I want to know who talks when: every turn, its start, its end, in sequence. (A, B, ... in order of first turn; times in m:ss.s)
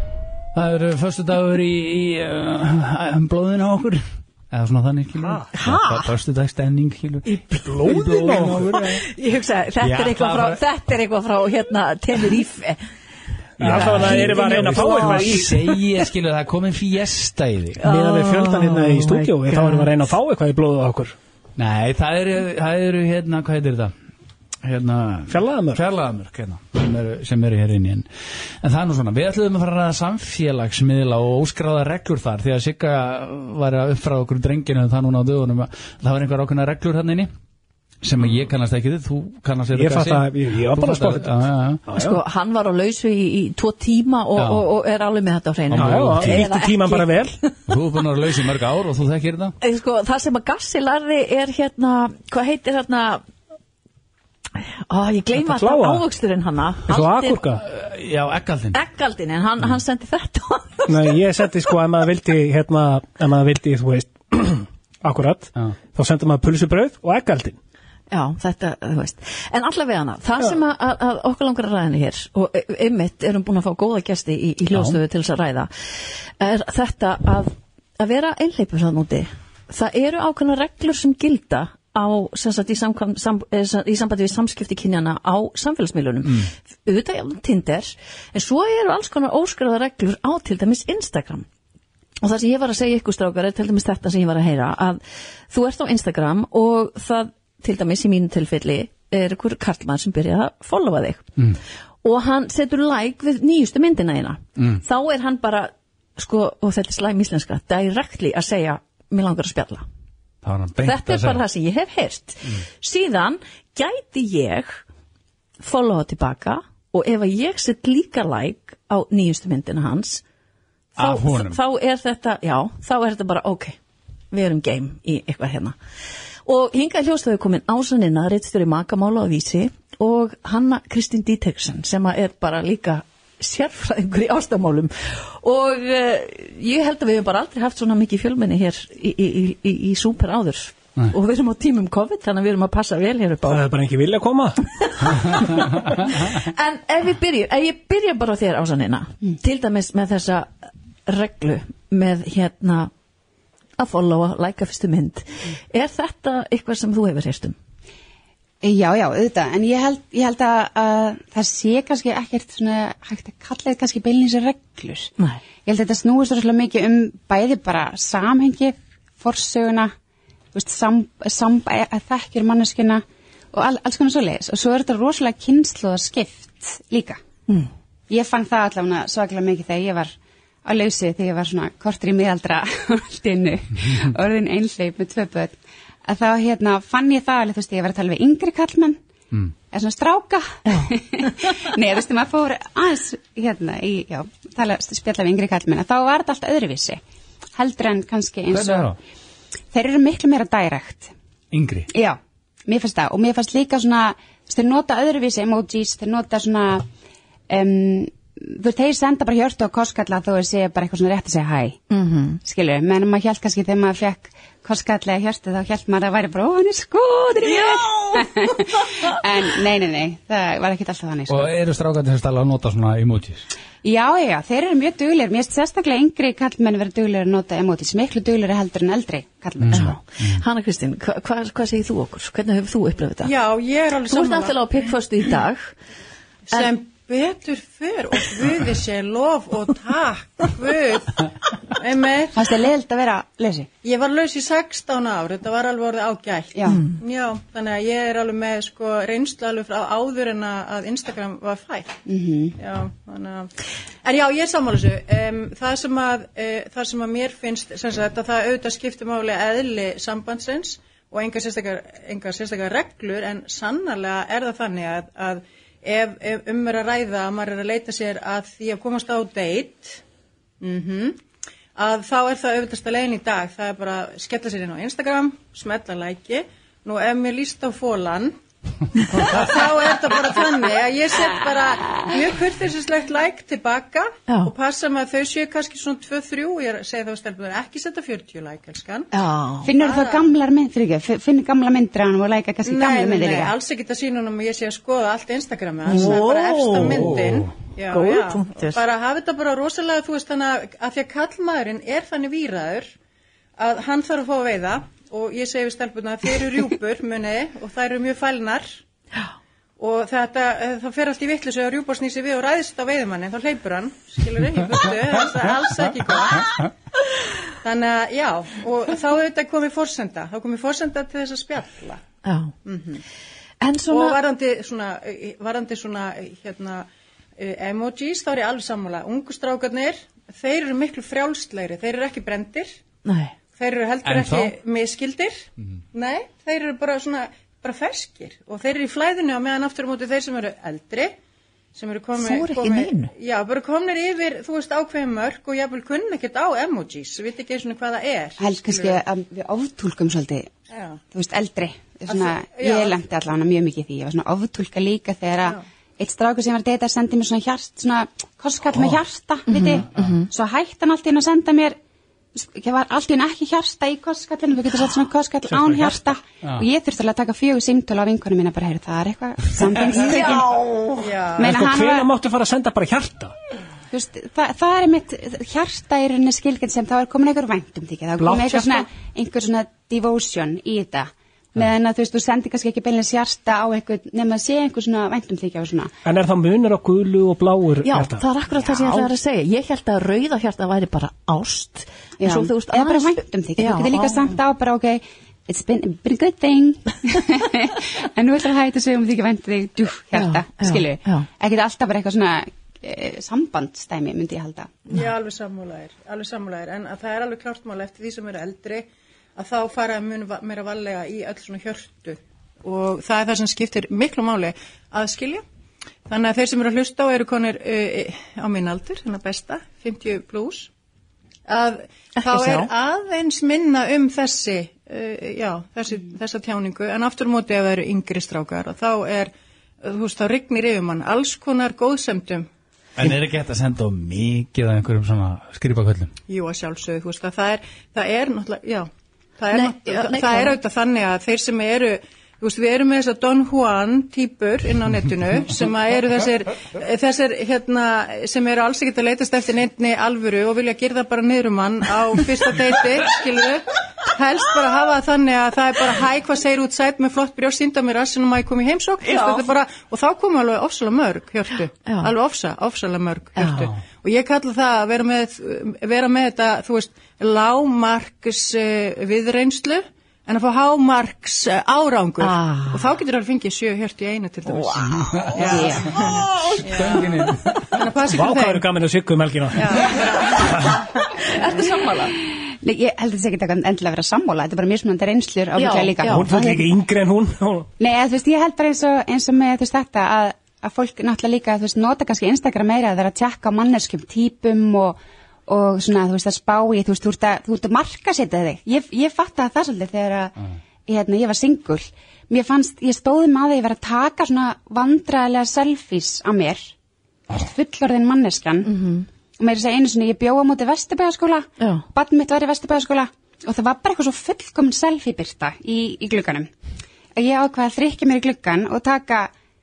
0:00.5-0:09.0 A
0:05.2-0:05.5 B
0:05.5-0:06.1 C
0:07.5-0:08.9 B
0:08.7-0:12.8 C
0:09.8-0:10.6 A
0:13.6-0:17.8 A
0:13.6-0:15.7 B
0:13.6-0:15.5 C
0:17.8-0:21.2 B
0:17.9-0:19.9 C
0:21.6-0:23.9 A
0:24.6-0:28.1 A
0:25.3-0:25.8 B
0:28.6-0:37.3 A
0:38.0-0:41.8 A
0:39.7-0:41.3 B
0:41.9-0:42.2 B
0:41.9-0:47.5 C
0:44.4-0:44.7 A
0:45.7-0:46.5 A
0:45.8-0:47.4 B
0:47.7-0:49.6 A
0:49.6-0:53.2 C
0:54.9-0:57.4 C
0:55.4-0:56.0 B
0:56.9-0:57.6 B
0:57.6-0:58.8 A
0:58.7-1:01.2 C
1:00.9-1:07.6 B
1:08.1-1:15.7 C
1:14.7-1:15.0 A
1:16.4-1:31.5 C
1:26.2-1:26.5 A
1:32.2-1:41.3 C
1:42.0-1:49.8 C
1:44.6-1:44.8 A
1:50.4-1:51.4 A
1:50.8-1:54.8 C
1:55.6-2:00.2 C
2:01.0-2:01.6 A
2:01.0-2:03.8 C
2:04.3-2:05.8 C
2:06.5-2:23.6 C
2:23.5-2:24.6 B
2:24.8-2:30.5 C
2:25.3-2:26.0 A
2:31.1-2:32.9 C
2:33.8-2:37.6 C
2:38.6-2:45.1 D
2:45.6-2:49.9 D
2:50.5-2:57.2 D
2:58.1-3:09.0 D
3:09.7-3:17.0 D
3:17.6-3:18.9 D
3:18.5-3:19.0 A
3:19.7-3:21.1 D
3:21.5-3:21.9 A
3:21.9-3:26.9 D
3:27.5-3:31.8 D
3:31.9-3:32.4 C
3:32.4-3:41.5 D
3:41.3-3:43.5 A
3:43.8-3:50.0 D
3:49.6-3:50.4 A
3:49.7-3:53.3 C
3:53.2-3:54.8 E
3:54.1-3:55.7 C
3:56.5-4:02.5 E
4:02.3-4:03.7 D
4:03.8-4:12.0 E
4:06.6-4:06.8 D
4:06.7-4:07.0 C
4:12.1-4:12.6 D
4:12.6-4:13.5 E
4:14.0-4:30.0 E
4:30.6-4:31.2 E
4:31.8-4:38.3 E
4:39.1-4:49.1 E
4:44.3-4:44.5 C
4:49.1-4:49.7 C
4:49.6-4:53.6 D
4:49.7-4:50.3 E
4:52.6-5:02.9 E
4:55.9-4:57.2 C
4:56.9-4:57.5 A
4:57.9-4:58.8 C
5:03.6-5:08.8 E
5:09.8-5:16.6 E
5:17.6-5:22.0 E
5:22.2-5:22.5 C
5:22.6-5:23.0 E
5:23.6-5:24.2 C
5:23.9-5:32.8 E
5:33.0-5:33.4 C
5:33.6-5:41.2 E
5:34.0-5:34.5 A
5:41.7-5:49.0 E
5:42.2-5:43.1 C
5:48.4-5:50.5 D
5:50.7-5:51.0 E
5:51.1-6:01.8 D
5:52.1-5:53.0 E
5:59.5-6:00.3 C
6:02.3-6:12.1 D
6:11.0-6:11.5 E
6:11.4-6:13.3 B
6:13.9-6:25.9 D
6:18.2-6:18.9 B
6:26.0-6:28.2 B
6:27.8-6:34.3 C
6:32.2-6:44.9 D
6:40.2-6:41.3 C
6:44.9-6:55.4 E
6:56.1-7:00.7 E
7:01.5-7:09.3 E
7:02.2-7:02.7 C
7:09.8-7:12.5 E
7:13.0-7:16.1 A
7:16.3-7:57.1 E
7:19.5-7:20.6 C
7:39.0-7:39.5 C
7:41.8-7:42.1 C
7:43.4-7:43.7 C
7:52.2-7:52.9 C
7:54.5-7:54.9 C
7:55.0-7:55.4 A
7:55.4-7:56.0 D
7:56.0-7:57.8 A
7:57.7-7:58.7 E
7:58.1-7:59.7 B
7:59.6-8:00.8 E
8:01.1-8:02.2 C
8:02.6-8:06.7 D
8:05.6-8:06.3 C
8:06.1-8:07.7 B
8:07.8-8:20.3 D
8:20.9-8:26.7 D
8:27.3-8:28.7 D
8:28.6-8:29.1 C
8:29.4-8:36.5 D
8:31.6-8:31.8 C
8:37.2-8:39.3 D